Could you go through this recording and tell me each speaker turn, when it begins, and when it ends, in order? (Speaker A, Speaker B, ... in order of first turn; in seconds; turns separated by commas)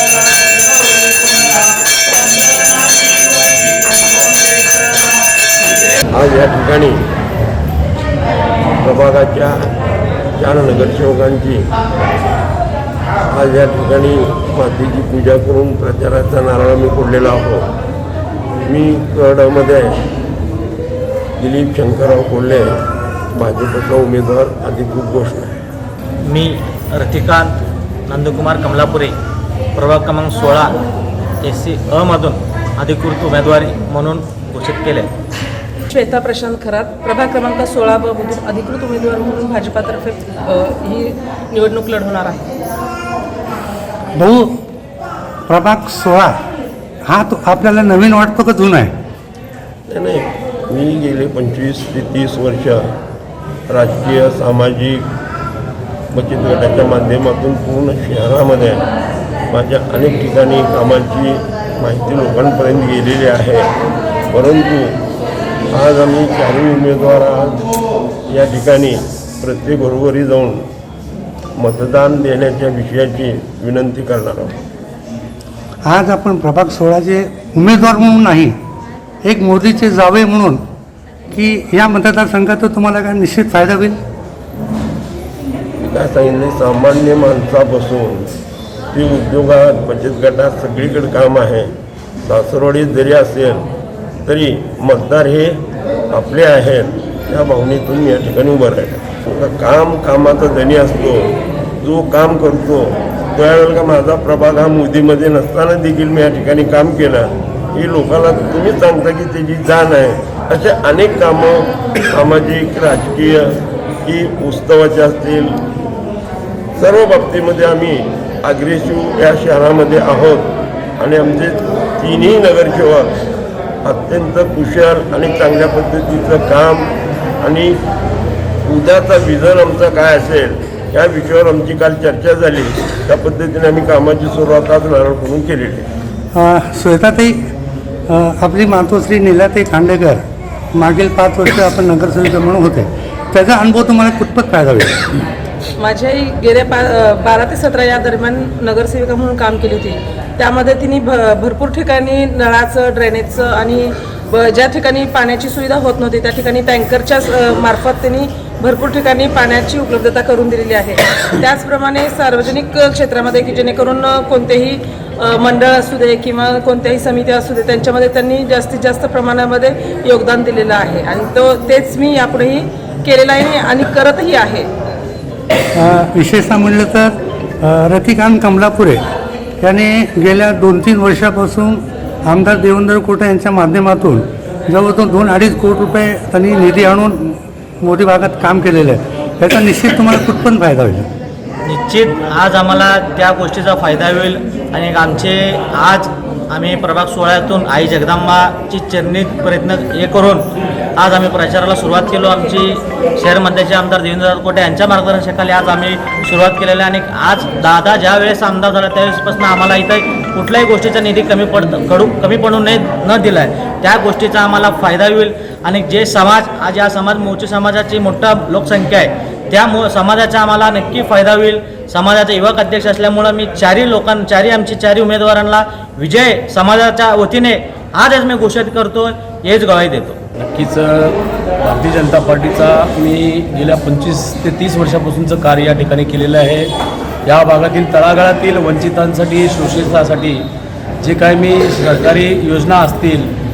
Speaker A: 6.1-7.1, Speaker A: 8.8-9.7, Speaker A: 10.4-11.7, Speaker A: 13.3-17.7, Speaker A: 18.6-20.0, Speaker A: 21.4-22.8, Speaker A: 23.3-25.6, Speaker B: 26.3-27.5, Speaker B: 28.1-29.1, Speaker B: 29.8-30.7, Speaker B: 31.4-35.1, Speaker C: 35.9-42.5, Speaker D: 44.1-44.6, Speaker D: 45.5-46.4, Speaker D: 47.0-48.9, Speaker A: 49.9-52.8, Speaker A: 53.7-55.1, Speaker A: 56.1-58.8, Speaker A: 59.5-63.7, Speaker A: 64.3-65.0, Speaker A: 65.7-67.7, Speaker A: 68.3-70.7, Speaker A: 71.5-74.5, Speaker D: 75.8-78.5, Speaker D: 79.2-80.6, Speaker D: 81.3-84.0, Speaker A: 85.8-88.3, Speaker A: 88.9-91.7, Speaker A: 92.2-93.7, Speaker A: 94.2-95.6, Speaker A: 96.1-115.5, Speaker A: 116.8-123.1, Speaker A: 123.8-127.8, Speaker A: 128.6-135.9, Speaker D: 136.3-137.4, Speaker D: 138.1-140.2, Speaker D: 140.7-145.2, Speaker C: 145.8-174.7, Speaker D: 175.8-179.0, Speaker D: 179.6-191.1, Speaker B: 191.7-200.4, Speaker B: 201.0-230.2, Speaker E: 230.4-236.7, Speaker E: 237.2-240.4, Speaker E: 241.0-243.3